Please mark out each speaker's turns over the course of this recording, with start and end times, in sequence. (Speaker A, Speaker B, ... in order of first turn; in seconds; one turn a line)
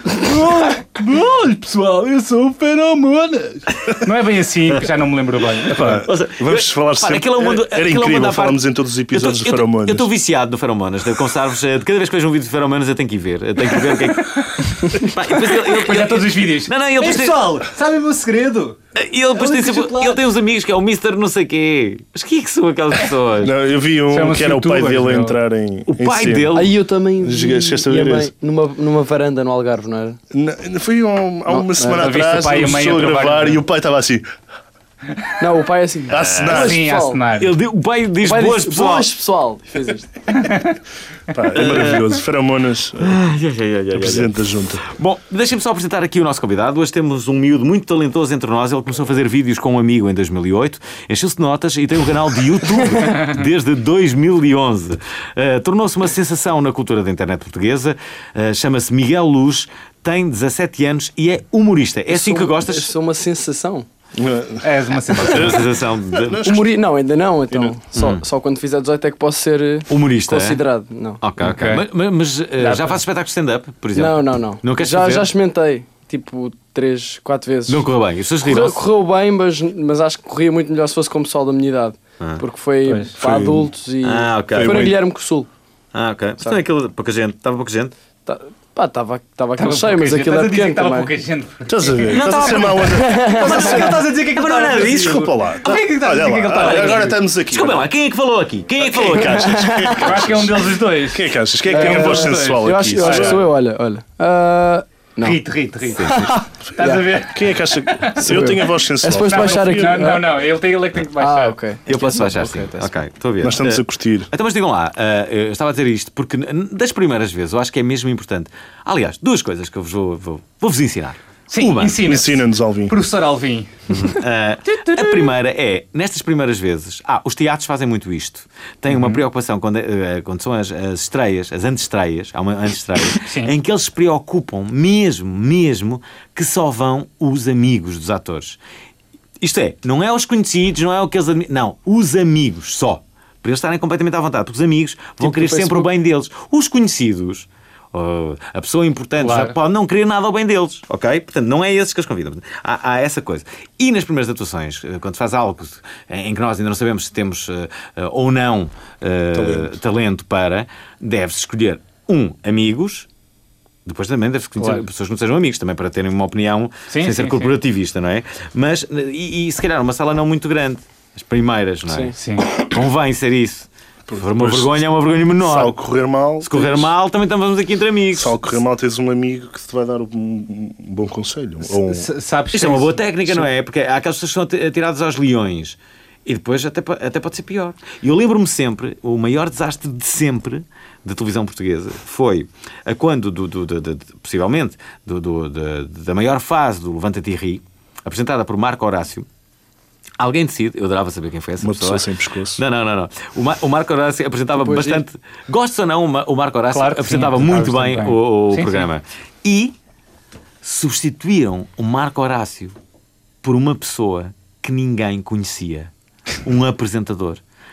Speaker A: 0.2-4.0
Speaker B: 4.0-6.0
Speaker A: 5.7-10.1
Speaker C: 5.8-17.5
Speaker B: 14.4-18.8
Speaker C: 18.9-23.5
Speaker B: 19.4-20.2
Speaker A: 23.4-26.7
Speaker B: 24.1-25.4
Speaker C: 25.9-26.7
Speaker D: 26.5-30.2
Speaker A: 27.2-28.3
Speaker A: 30.3-34.3
Speaker D: 31.5-32.1
Speaker B: 31.9-33.6
Speaker D: 35.4-37.2
Speaker A: 36.1-36.9
Speaker C: 36.2-36.6
Speaker B: 36.5-37.5
Speaker C: 37.4-39.1
Speaker D: 38.2-40.2
Speaker B: 40.3-40.8
Speaker A: 41.3-43.2
Speaker C: 41.5-42.1
Speaker C: 43.0-62.9
Speaker A: 43.9-44.9
Speaker D: 62.1-63.9
Speaker A: 64.2-66.7
Speaker B: 64.6-65.7
Speaker C: 65.2-66.4
Speaker D: 66.4-71.2
Speaker C: 68.0-68.2
Speaker C: 69.9-70.6
Speaker C: 71.2-75.3
Speaker B: 71.4-71.9
Speaker B: 72.6-73.0
Speaker D: 74.0-77.9
Speaker C: 77.7-78.8
Speaker D: 78.4-85.5
Speaker B: 82.8-83.1
Speaker A: 83.2-83.7
Speaker C: 84.0-84.9
Speaker A: 84.5-85.0
Speaker C: 85.9-87.9
Speaker D: 88.3-91.1
Speaker B: 89.6-97.2
Speaker A: 91.7-93.4
Speaker C: 92.1-92.7
Speaker D: 92.8-94.0
Speaker C: 93.4-95.4
Speaker A: 94.7-97.8
Speaker C: 96.5-99.6
Speaker A: 98.8-103.4
Speaker D: 98.9-100.2
Speaker B: 100.0-103.4
Speaker D: 101.7-105.4
Speaker B: 105.2-108.5
Speaker D: 105.9-107.1
Speaker C: 106.0-106.3
Speaker A: 106.7-110.0
Speaker D: 108.2-110.5
Speaker B: 109.1-111.6
Speaker D: 111.2-113.0
Speaker C: 111.9-122.1
Speaker A: 113.4-114.3
Speaker B: 121.5-124.0
Speaker A: 122.0-123.0
Speaker C: 123.9-138.6
Speaker B: 124.7-125.3
Speaker B: 128.9-129.2
Speaker B: 133.2-133.5
Speaker C: 139.4-163.1
Speaker D: 145.2-145.9
Speaker B: 149.2-149.6
Speaker A: 159.3-159.8
Speaker C: 163.8-175.8
Speaker B: 164.6-164.9
Speaker B: 166.9-167.6
Speaker D: 171.9-172.2
Speaker B: 172.2-172.6
Speaker A: 174.1-174.8
Speaker A: 175.3-176.9
Speaker C: 176.4-178.4
Speaker A: 178.1-182.1
Speaker B: 181.7-183.5
Speaker C: 182.5-199.3
Speaker C: 200.2-209.8
Speaker A: 201.6-202.6
Speaker D: 204.6-205.0
Speaker B: 206.7-208.9
Speaker C: 210.6-212.8
Speaker C: 213.4-215.9
Speaker C: 216.4-217.4